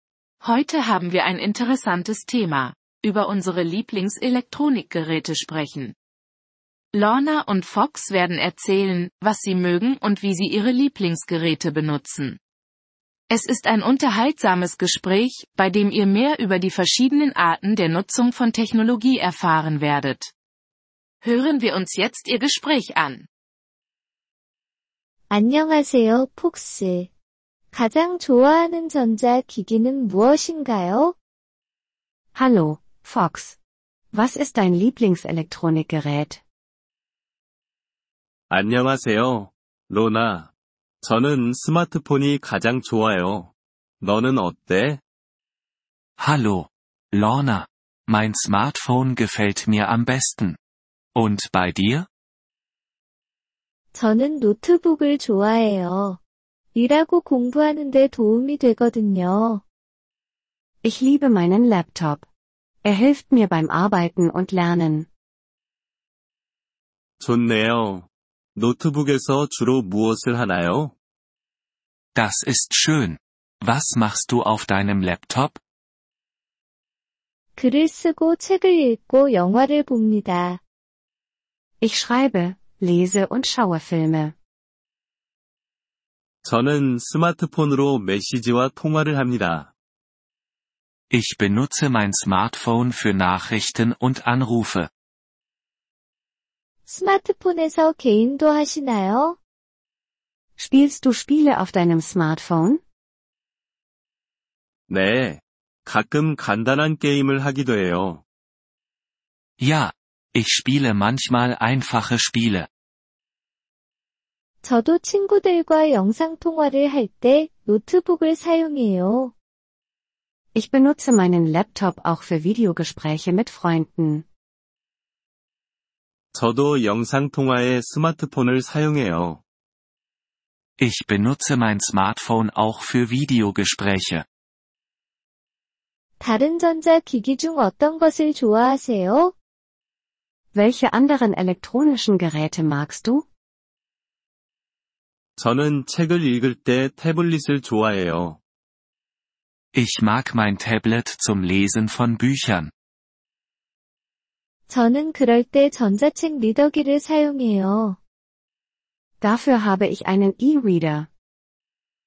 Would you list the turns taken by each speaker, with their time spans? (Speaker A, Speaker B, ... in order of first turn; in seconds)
Speaker A: 0.4-5.9, 6.9-12.4, 13.3-20.3, 21.2-23.3
Speaker B: 25.3-27.1, 27.7-31.1, 53.9-56.2, 56.7-59.6, 77.5-80.6, 96.8-99.4, 114.6-119.3, 136.2-139.3, 154.7-158.0
Speaker C: 32.3-33.6, 34.1-36.4, 60.8-62.2, 62.8-65.1, 81.8-84.3, 100.6-102.8, 120.5-124.2, 140.5-143.2, 159.2-161.1
Speaker D: 38.5-40.5, 41.0-45.0, 67.2-70.9, 86.4-89.7, 104.9-108.2, 126.3-129.4, 145.4-148.4
Speaker E: 46.2-50.6, 51.1-52.1, 72.1-75.6, 91.1-94.9, 109.6-112.7, 130.8-134.2, 149.7-152.7